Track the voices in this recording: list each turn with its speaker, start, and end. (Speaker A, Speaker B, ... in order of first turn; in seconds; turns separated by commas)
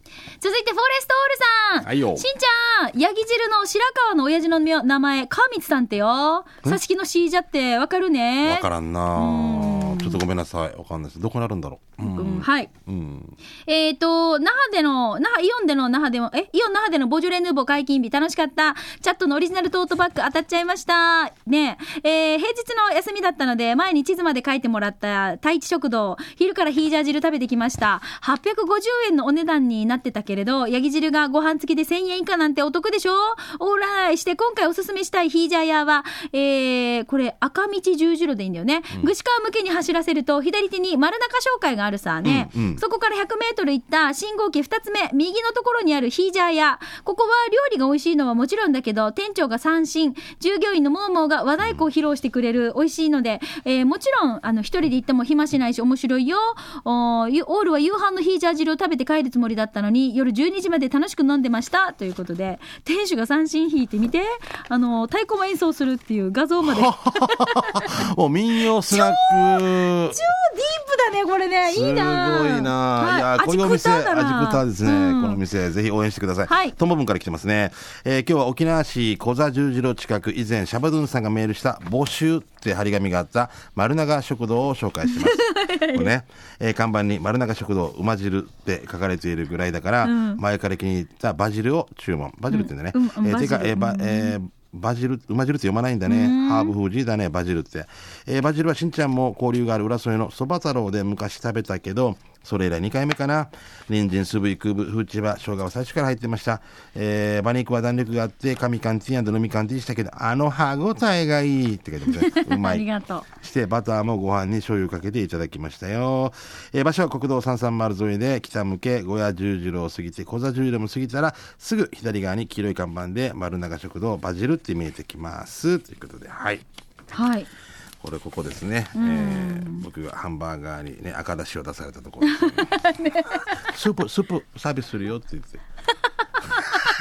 Speaker A: 0.4-10.2, Speaker B: 1.8-2.2, Speaker B: 8.4-13.3, Speaker A: 12.0-12.7, Speaker A: 13.7-68.0, Speaker B: 42.2-42.8, Speaker B: 66.6-70.2, Speaker A: 68.9-75.4, Speaker B: 71.7-126.6, Speaker A: 76.5-76.8, Speaker A: 85.1-86.1, Speaker A: 90.0-90.4, Speaker A: 92.5-94.4, Speaker A: 96.0-96.7, Speaker A: 112.2-113.2, Speaker A: 127.1-127.5, Speaker B: 128.0-132.8, Speaker A: 128.9-129.8, Speaker A: 132.2-133.6, Speaker B: 133.6-135.6, Speaker A: 136.5-136.8